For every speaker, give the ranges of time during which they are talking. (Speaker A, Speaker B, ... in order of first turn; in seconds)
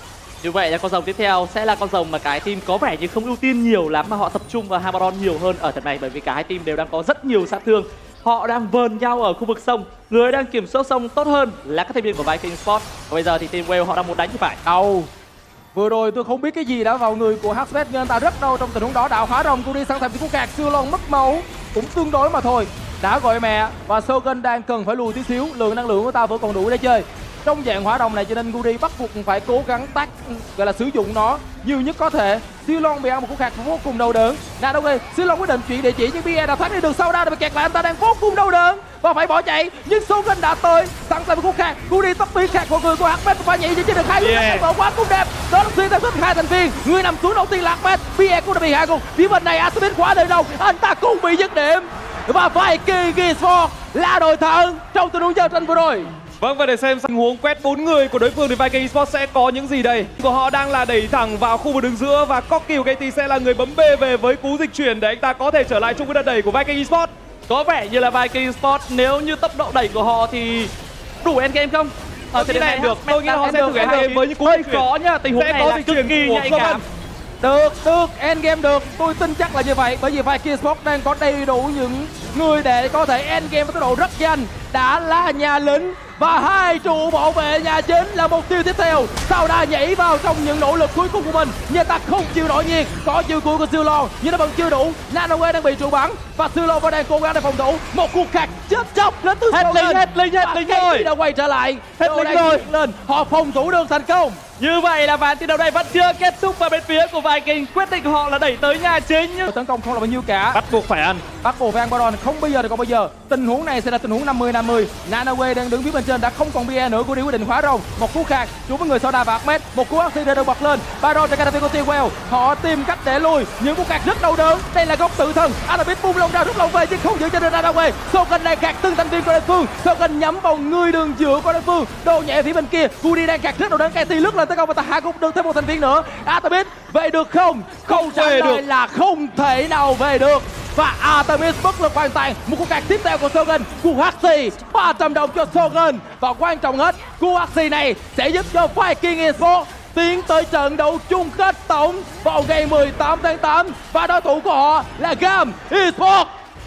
Speaker A: 0.4-14.6, 67.5-70.7, 71.2-76.8, 99.5-101.1, 102.1-102.7, 104.6-109.5
Speaker B: 14.7-15.1, 15.7-56.1, 77.4-104.4, 109.5-110.6, 111.4-156.3
Speaker C: 44.2-44.7, 56.4-67.1, 72.3-76.8, 102.1-102.4, 110.5-111.2, 137.9-138.6